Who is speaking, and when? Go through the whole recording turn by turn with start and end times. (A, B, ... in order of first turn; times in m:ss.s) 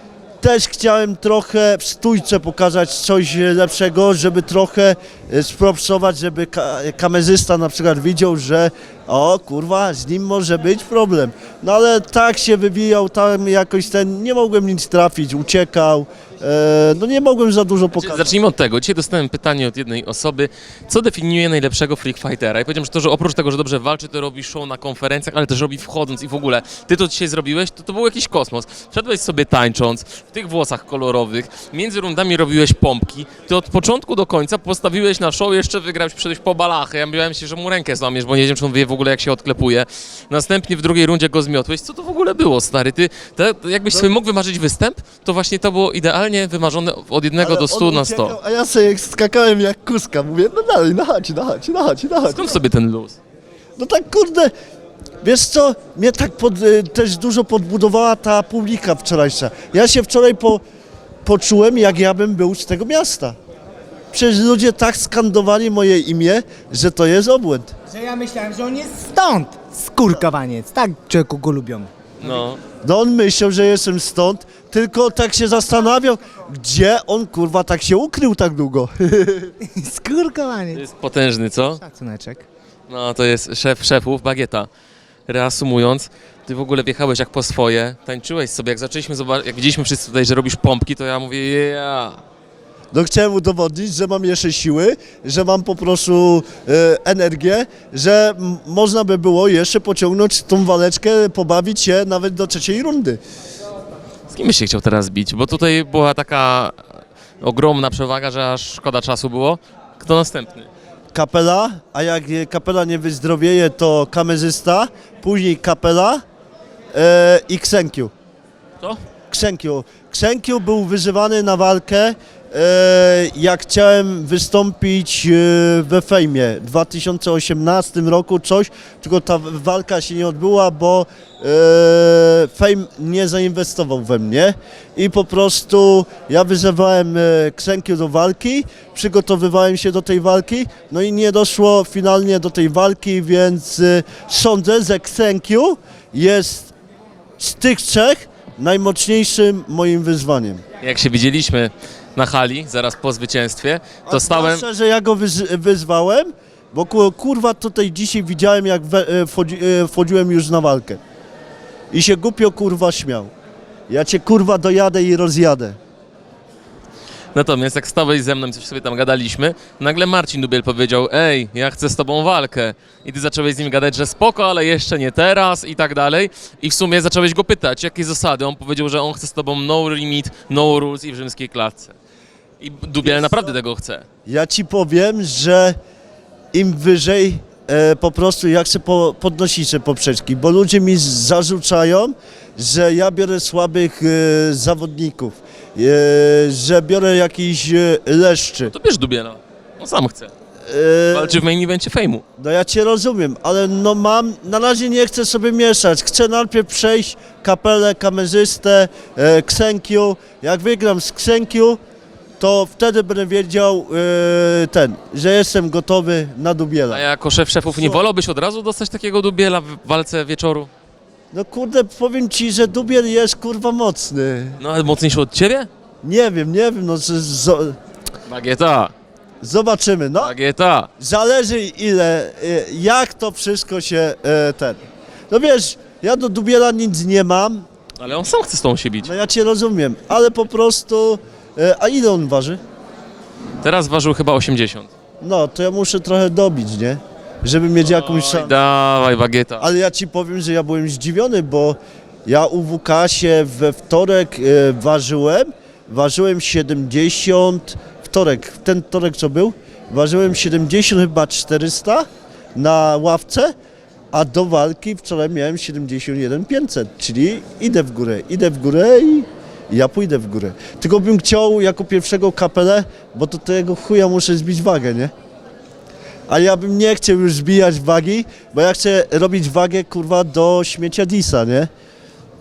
0:00.4-0:18.3 A
0:17.9-0:48.4 B
0:47.4-0:52.5 A
0:52.3-0:53.2 B
0:53.8-0:54.5 A
0:55.2-1:00.6 A
1:01.2-1:03.4 A
1:04.1-1:07.7 A
1:07.9-1:11.9 C
1:12.2-1:12.6 B
1:12.8-1:19.5 A
1:19.6-1:20.8 C
1:20.7-1:21.8 B
1:21.8-1:22.5 C
1:22.9-1:24.7 B
1:25.3-1:32.2 B
1:32.9-1:43.2 A
1:44.3-1:46.8 B
1:47.4-1:50.7 B
1:51.1-1:56.2 A
1:56.9-1:58.1 A
1:59.3-2:26.7 A
2:27.4-2:30.6 A
2:30.8-2:34.6 B
2:34.1-2:41.0 A
2:41.9-2:43.3 A
2:43.9-2:45.8 A
2:47.3-3:02.0 B
3:02.6-3:04.0 B
3:03.0-3:03.5 A
3:04.3-3:05.8 A
3:06.5-3:18.7 A
3:18.6-3:20.3 B
3:20.7-3:21.4 A
3:21.1-3:22.2 B
3:22.4-3:31.8 A
3:32.4-3:37.0 A
3:36.9-3:40.7 B
3:37.7-3:38.0 A
3:41.3-3:44.6 A
3:44.6-3:45.7 B
3:46.0-3:47.8 A
3:48.3-3:48.9 B
3:49.4-3:50.3 A
3:50.2-3:50.9 B
3:51.0-3:54.8 A
3:55.3-3:57.7 A
3:58.0-3:59.1 B
3:59.0-4:02.6 A
4:03.6-4:04.9 B
4:05.2-4:08.6 A
4:07.8-4:09.7 B
4:09.6-4:23.5 A
4:24.1-4:35.1 A
4:36.3-4:41.7 A